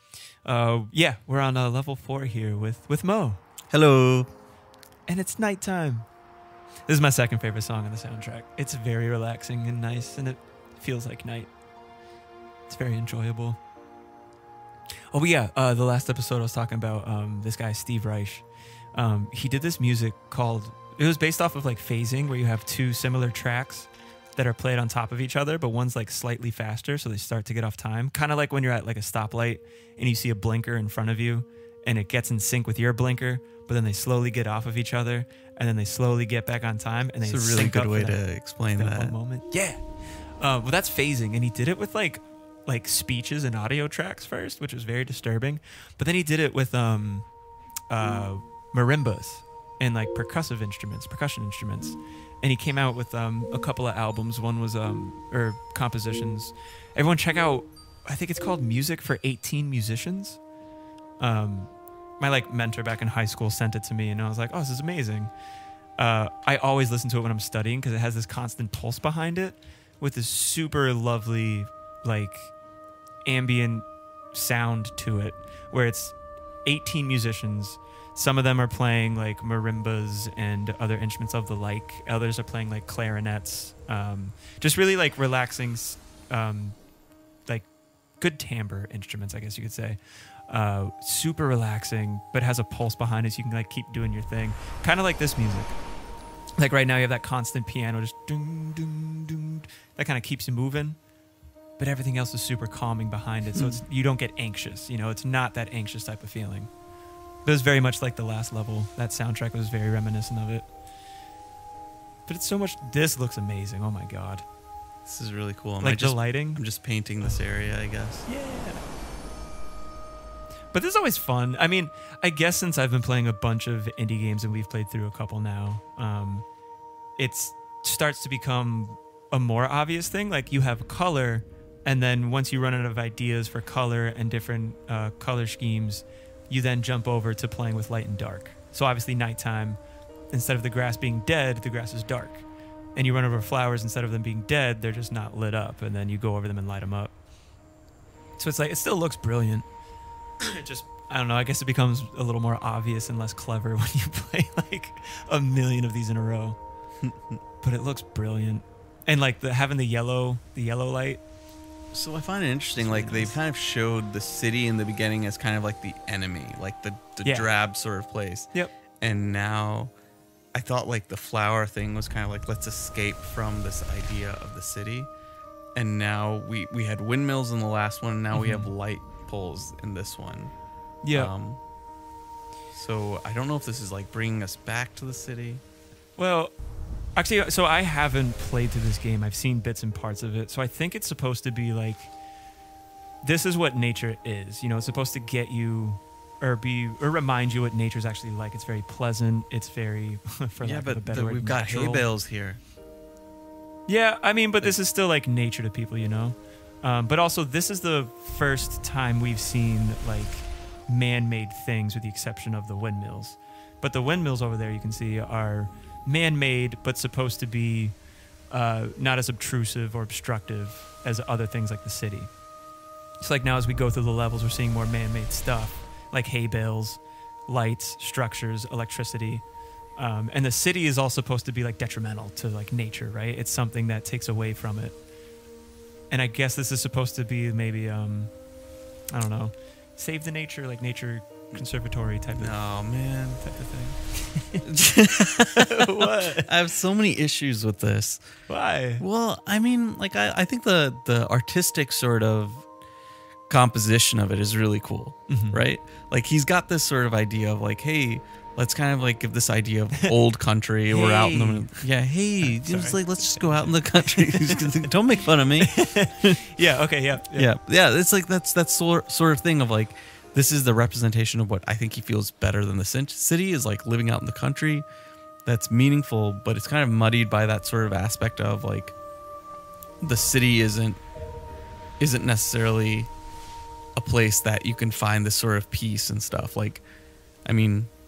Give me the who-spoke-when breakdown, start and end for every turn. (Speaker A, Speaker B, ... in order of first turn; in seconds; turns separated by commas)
Speaker A: 0.4-3.4, Speaker B: 3.7-4.3, Speaker A: 5.1-6.1, Speaker A: 6.9-11.5, Speaker A: 12.7-13.6, Speaker A: 15.1-39.8, Speaker B: 37.2-39.1, Speaker A: 40.4-47.3, Speaker A: 47.9-60.4, Speaker A: 61.2-65.3, Speaker A: 66.0-72.5, Speaker A: 73.2-86.8, Speaker A: 87.5-95.8, Speaker A: 96.6-101.0, Speaker A: 101.8-106.7, Speaker B: 103.5-103.8, Speaker A: 107.4-110.7, Speaker A: 112.2-114.4, Speaker B: 115.0-118.2, Speaker A: 115.8-116.6, Speaker A: 118.2-118.8, Speaker A: 120.7-126.5, Speaker A: 127.2-139.8, Speaker A: 140.3-147.1, Speaker A: 148.4-149.7, Speaker A: 150.4-156.6, Speaker B: 157.0-157.4, Speaker A: 157.6-161.2, Speaker B: 161.9-169.9, Speaker A: 162.8-163.4, Speaker A: 167.2-167.5, Speaker B: 170.5-175.1, Speaker B: 175.7-180.5, Speaker A: 178.3-178.7, Speaker A: 181.0-181.3, Speaker B: 181.1-181.6, Speaker B: 182.7-185.6, Speaker A: 186.2-186.6, Speaker A: 187.2-192.1, Speaker A: 193.2-202.1, Speaker B: 200.6-202.6, Speaker A: 203.9-218.0, Speaker A: 218.5-222.3, Speaker A: 223.2-235.0, Speaker A: 236.1-238.3, Speaker A: 239.1-242.7, Speaker B: 242.3-243.4, Speaker A: 243.4-244.7, Speaker B: 244.7-248.2, Speaker A: 245.6-246.5, Speaker A: 248.5-249.0, Speaker B: 249.0-252.7, Speaker B: 253.5-266.4, Speaker A: 255.3-255.6, Speaker A: 260.9-261.8, Speaker A: 262.4-264.9, Speaker A: 265.6-267.5, Speaker B: 267.3-274.9, Speaker B: 275.4-278.9, Speaker B: 280.0-281.0, Speaker B: 282.0-283.1, Speaker B: 283.9-286.8, Speaker B: 287.4-287.9